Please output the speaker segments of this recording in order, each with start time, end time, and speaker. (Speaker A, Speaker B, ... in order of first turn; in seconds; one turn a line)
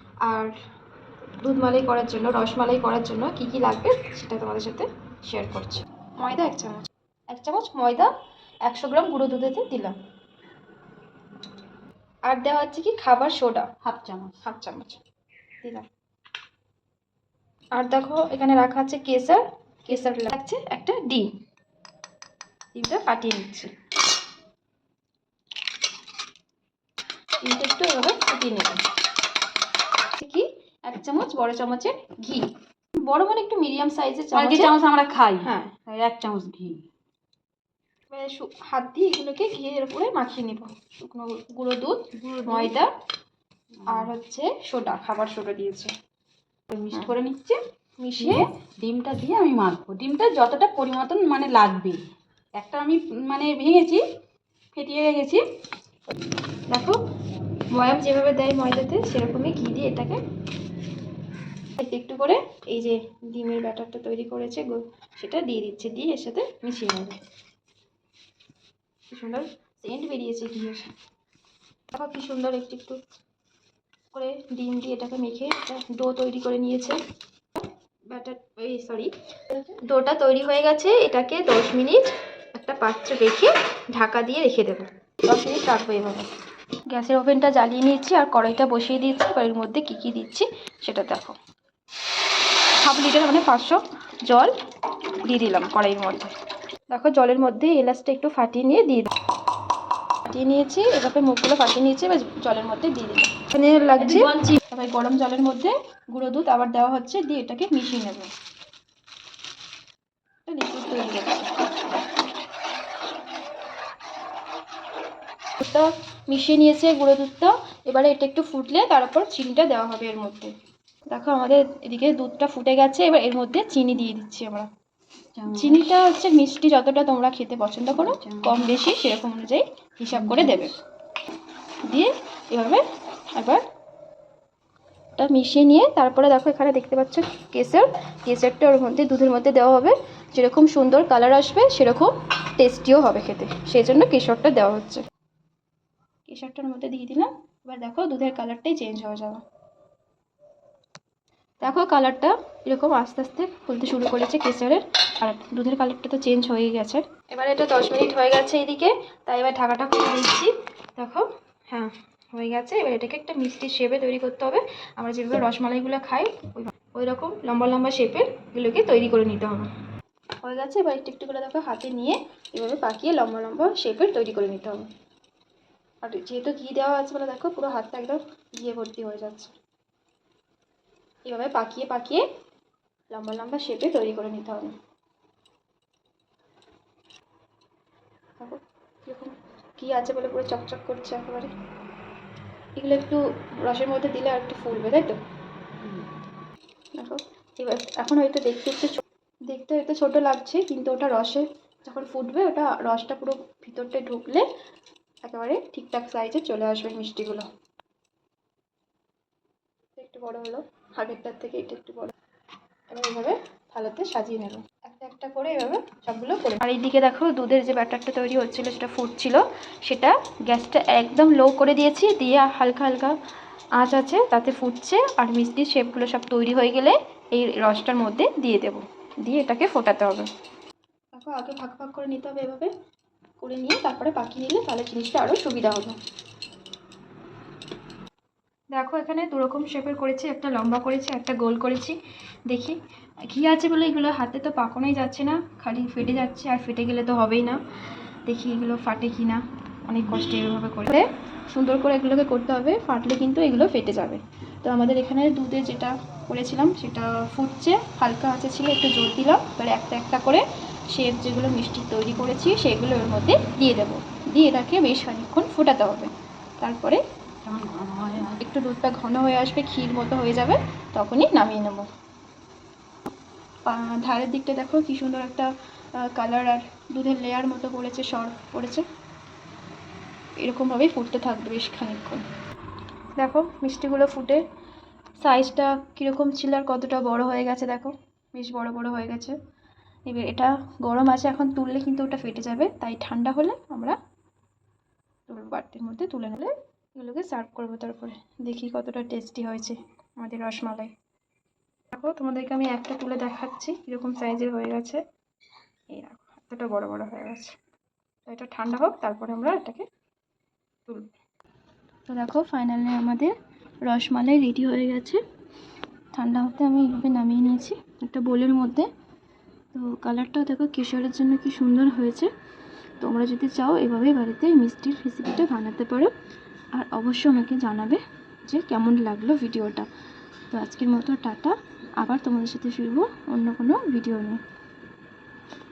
Speaker A: 0.2-0.5
Speaker A: 1.4-8.1
Speaker A: 8.6-9.9
Speaker A: 12.3-13.7
Speaker B: 13.8-14.4
Speaker A: 14.4-15.0
Speaker A: 17.7-21.3
Speaker A: 22.7-23.7
Speaker A: 27.4-28.8
Speaker A: 30.2-32.5
Speaker A: 33.0-34.7
Speaker B: 34.3-36.8
Speaker A: 35.4-35.7
Speaker A: 38.1-42.9
Speaker B: 42.2-42.7
Speaker A: 43.9-45.9
Speaker B: 46.7-47.6
Speaker A: 48.0-48.5
Speaker B: 48.2-52.0
Speaker B: 52.6-54.0
Speaker B: 54.7-55.4
Speaker A: 56.7-57.0
Speaker A: 57.7-60.2
Speaker A: 61.8-67.2
Speaker A: 69.1-70.9
Speaker A: 71.9-73.0
Speaker A: 74.1-77.0
Speaker A: 78.1-86.3
Speaker A: 86.9-91.3
Speaker A: 92.8-94.5
Speaker A: 95.2-96.3
Speaker A: 96.9-99.1
Speaker A: 100.2-108.3
Speaker B: 104.0-104.6
Speaker A: 110.5-111.5
Speaker A: 115.6-120.5
Speaker A: 121.1-124.7
Speaker B: 125.3-125.9
Speaker A: 125.5-130.7
Speaker B: 128.1-128.7
Speaker B: 130.1-130.7
Speaker A: 131.8-132.8
Speaker A: 133.3-133.6
Speaker A: 135.2-145.0
Speaker A: 146.3-149.4
Speaker A: 151.6-169.7
Speaker A: 170.4-174.9
Speaker A: 176.0-179.5
Speaker A: 181.2-182.2
Speaker A: 183.1-184.7
Speaker A: 188.4-191.5
Speaker A: 192.8-195.2
Speaker A: 196.9-204.4
Speaker A: 205.2-207.4
Speaker A: 209.9-212.1
Speaker A: 212.9-223.1
Speaker A: 223.8-230.3
Speaker A: 231.1-232.7
Speaker A: 233.4-235.9
Speaker A: 238.7-241.9
Speaker A: 242.5-242.8
Speaker A: 243.3-247.6
Speaker A: 248.2-267.0
Speaker B: 267.4-268.4
Speaker A: 268.3-271.9
Speaker A: 273.6-275.5
Speaker A: 276.0-278.8
Speaker A: 280.4-282.2
Speaker A: 283.2-284.4
Speaker A: 285.2-289.4
Speaker A: 290.1-294.0
Speaker A: 295.3-300.9
Speaker A: 301.9-305.0
Speaker A: 305.9-307.5
Speaker A: 308.3-309.8
Speaker A: 312.1-313.3
Speaker A: 313.9-315.2
Speaker A: 316.1-318.9
Speaker A: 319.7-322.3
Speaker A: 323.0-326.1
Speaker A: 326.7-329.9
Speaker A: 330.5-334.4